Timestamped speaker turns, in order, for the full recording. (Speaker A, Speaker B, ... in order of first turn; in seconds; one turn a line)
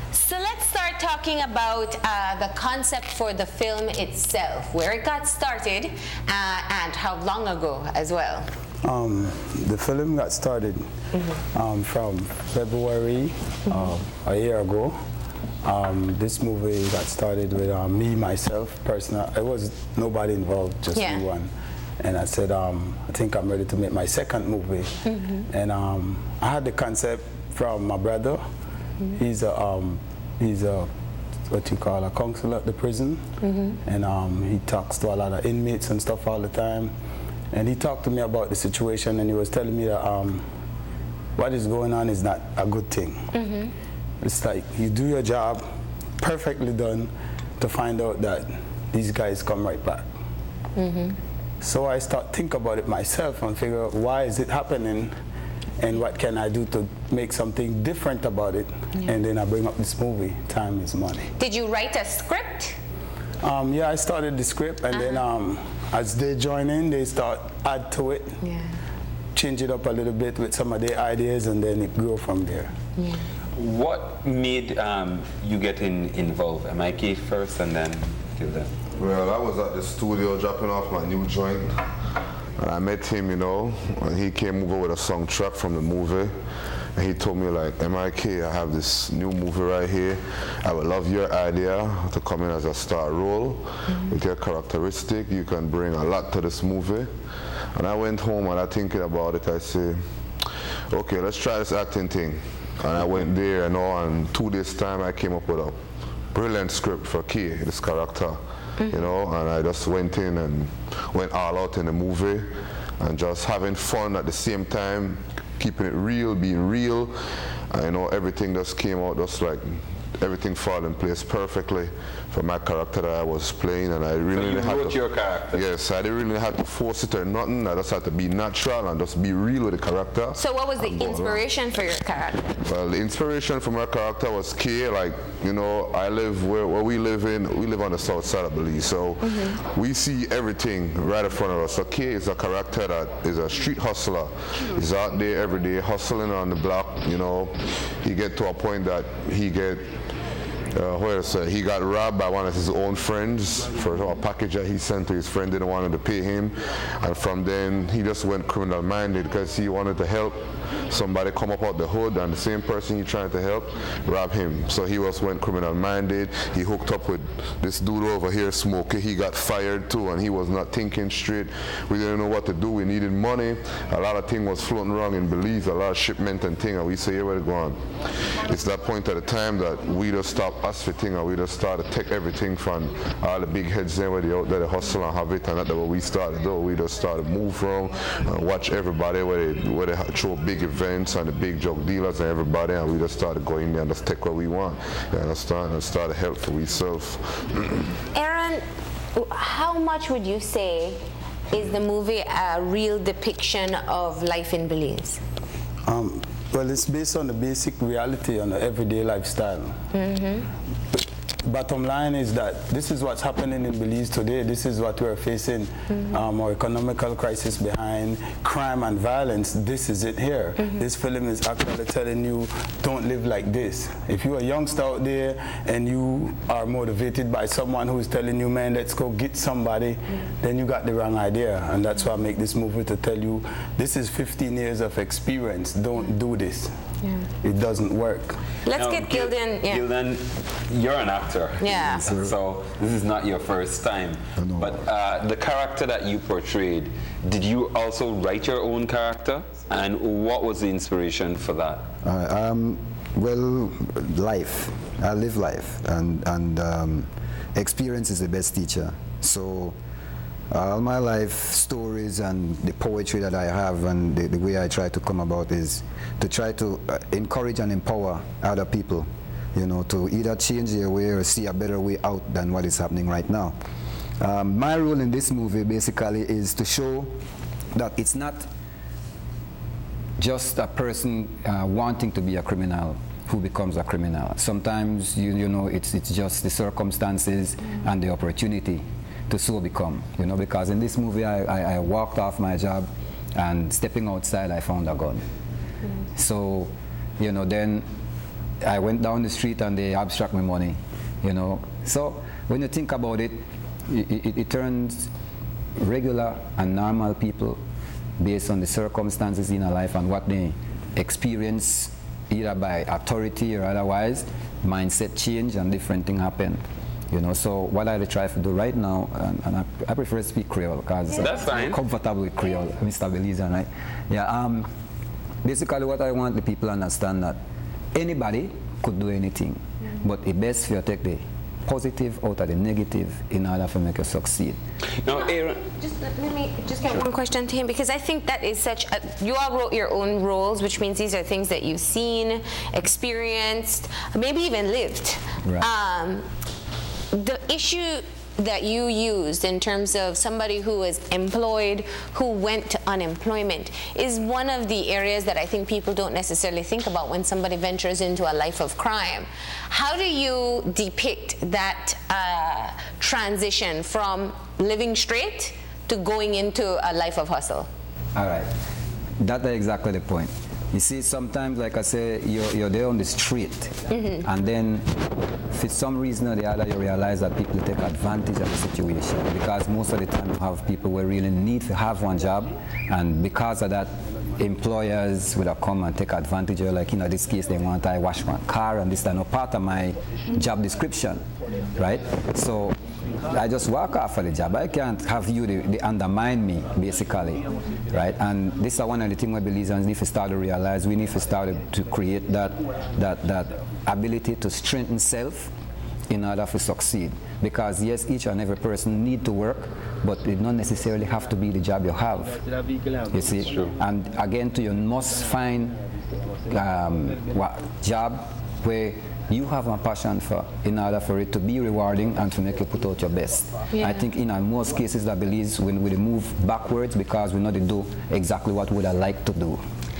Speaker A: 0.1-8.5
Speaker B: 8.8-14.9
Speaker A: 11.1-11.4
Speaker B: 15.6-28.4
Speaker A: 20.9-21.2
Speaker A: 25.1-25.4
Speaker B: 29.1-30.9
Speaker B: 31.5-33.2
Speaker A: 33.4-33.8
Speaker B: 33.8-36.9
Speaker B: 37.5-40.4
Speaker B: 41.4-43.3
Speaker A: 43.3-43.7
Speaker B: 44.2-45.6
Speaker B: 46.2-50.1
Speaker A: 50.8-51.2
Speaker B: 51.6-55.1
Speaker B: 55.8-61.3
Speaker A: 61.4-62.8
Speaker B: 63.4-68.4
Speaker A: 68.4-68.7
Speaker B: 69.3-72.7
Speaker C: 73.6-78.7
Speaker D: 79.0-81.8
Speaker D: 82.6-86.3
Speaker D: 86.9-97.1
Speaker D: 97.7-100.0
Speaker D: 100.9-105.8
Speaker D: 106.3-117.2
Speaker D: 117.7-125.0
Speaker C: 124.3-125.6
Speaker D: 125.5-131.4
Speaker A: 130.3-132.5
Speaker D: 132.6-149.9
Speaker A: 139.2-139.5
Speaker D: 150.7-197.9
Speaker A: 198.1-198.6
Speaker A: 199.1-205.2
Speaker B: 205.8-209.9
Speaker A: 209.9-210.5
Speaker B: 211.4-236.8
Speaker B: 237.4-238.4
Speaker A: 238.6-239.8
Speaker C: 238.7-251.8
Speaker A: 241.6-242.1
Speaker E: 241.9-242.3
Speaker E: 244.4-244.7
Speaker E: 252.0-259.7
Speaker E: 260.5-273.6
Speaker E: 274.2-277.2
Speaker E: 277.7-278.5
Speaker E: 280.2-295.2
Speaker E: 296.1-297.9
Speaker E: 298.6-305.1
Speaker E: 305.8-307.6
Speaker E: 308.2-324.7
Speaker C: 321.2-321.8
Speaker E: 325.4-327.4
Speaker E: 327.9-334.6
Speaker C: 335.0-335.6
Speaker A: 335.1-346.2
Speaker A: 347.1-367.7
Speaker E: 368.1-368.5
Speaker E: 369.2-391.2
Speaker A: 373.9-374.2
Speaker E: 391.7-405.5
Speaker E: 406.1-412.4
Speaker E: 413.1-415.8
Speaker E: 416.5-429.6